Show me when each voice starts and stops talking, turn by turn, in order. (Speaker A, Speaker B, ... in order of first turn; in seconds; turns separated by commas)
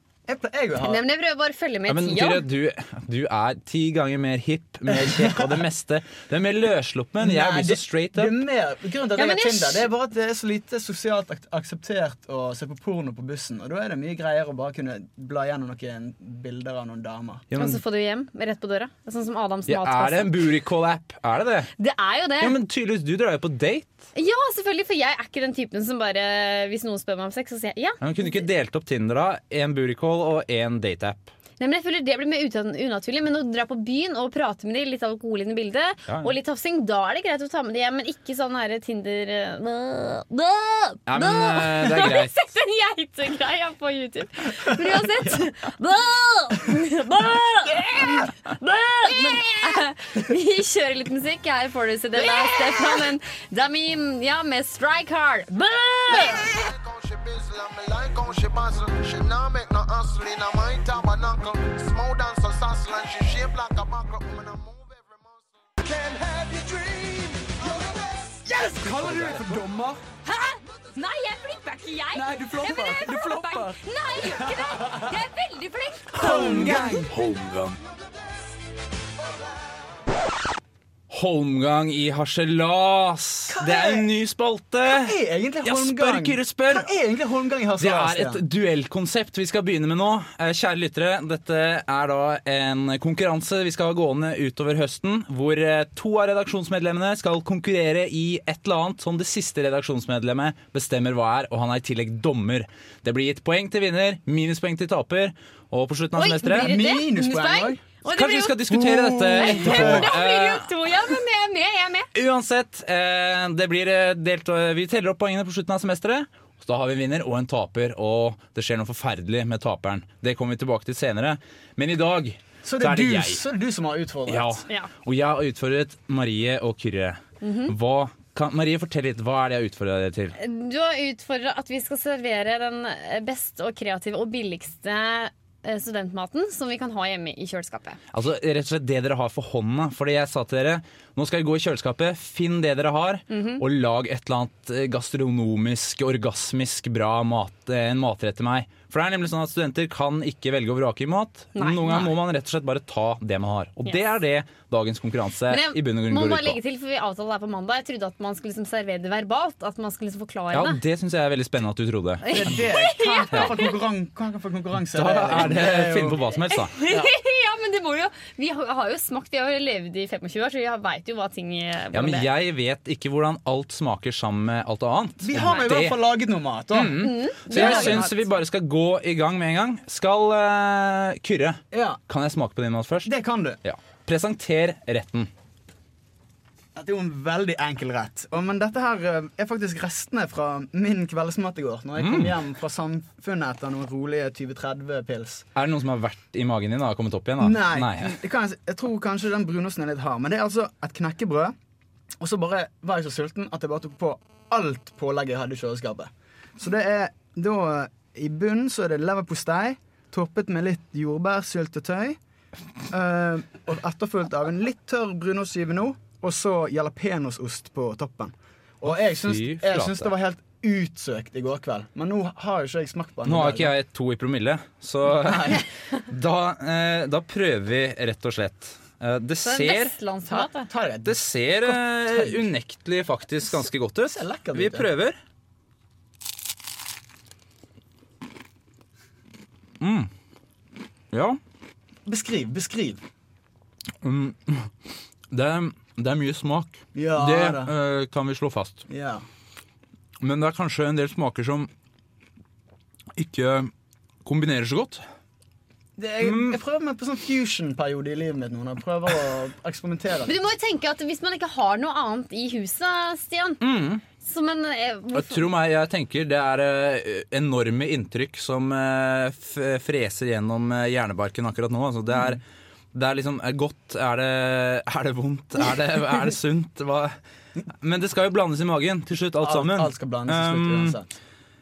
Speaker A: 0.3-1.0, Speaker B: 0.8-2.4, Speaker C: 1.9-8.4, Speaker A: 4.9-5.6, Speaker A: 7.2-17.5, Speaker B: 9.2-9.9, Speaker C: 17.5-17.8, Speaker B: 17.6-20.4, Speaker C: 19.7-21.7, Speaker B: 21.8-22.6, Speaker C: 22.4-24.1, Speaker B: 24.1-28.5, Speaker C: 28.0-31.3, Speaker B: 31.6-56.5, Speaker C: 36.1-36.3, Speaker C: 41.1-42.3, Speaker A: 52.4-53.0, Speaker A: 56.1-56.5, Speaker D: 56.3-69.6, Speaker A: 66.2-67.6, Speaker A: 68.4-70.0, Speaker C: 69.0-69.5, Speaker B: 70.2-77.0, Speaker A: 72.2-73.8, Speaker A: 76.1-77.2, Speaker C: 76.2-77.8, Speaker C: 81.1-86.9, Speaker A: 83.5-84.1, Speaker A: 84.9-88.4, Speaker C: 87.8-106.8, Speaker B: 106.2-108.8, Speaker A: 106.4-107.8, Speaker C: 108.1-110.7, Speaker A: 108.7-110.1, Speaker B: 109.3-112.1, Speaker C: 112.1-123.4, Speaker A: 122.6-124.6, Speaker C: 124.3-130.4, Speaker B: 127.4-127.8, Speaker B: 130.4-138.0, Speaker C: 138.1-156.6, Speaker B: 143.3-143.6, Speaker B: 151.6-152.1, Speaker B: 155.5-160.8, Speaker C: 160.5-162.6, Speaker B: 162.2-163.7, Speaker A: 162.3-166.3, Speaker C: 164.9-166.7, Speaker B: 166.5-172.3, Speaker A: 166.9-167.1, Speaker C: 171.9-176.0, Speaker A: 175.2-178.1, Speaker C: 176.7-183.1, Speaker B: 176.9-178.2, Speaker A: 181.7-182.0, Speaker A: 183.1-183.6, Speaker C: 183.6-185.3, Speaker A: 186.8-195.4, Speaker C: 192.0-192.4, Speaker C: 195.6-198.2, Speaker A: 197.4-201.6, Speaker A: 202.2-212.2, Speaker A: 212.9-223.7, Speaker C: 218.9-220.1, Speaker C: 223.2-230.0, Speaker A: 225.1-225.6, Speaker B: 229.4-230.7, Speaker A: 230.3-232.4, Speaker C: 231.1-235.2, Speaker A: 234.1-234.9, Speaker C: 239.8-240.1, Speaker C: 241.1-241.4, Speaker A: 242.1-243.0, Speaker C: 244.0-244.7, Speaker C: 245.3-248.9, Speaker A: 246.9-247.7, Speaker A: 248.9-249.3, Speaker C: 250.2-251.7, Speaker C: 253.2-253.7, Speaker C: 254.2-255.0, Speaker A: 256.0-260.3, Speaker C: 256.2-256.6, Speaker B: 260.3-263.6, Speaker C: 263.6-264.0, Speaker B: 264.2-265.5, Speaker C: 265.1-272.4, Speaker C: 272.9-277.1, Speaker C: 277.8-281.0, Speaker A: 279.4-281.1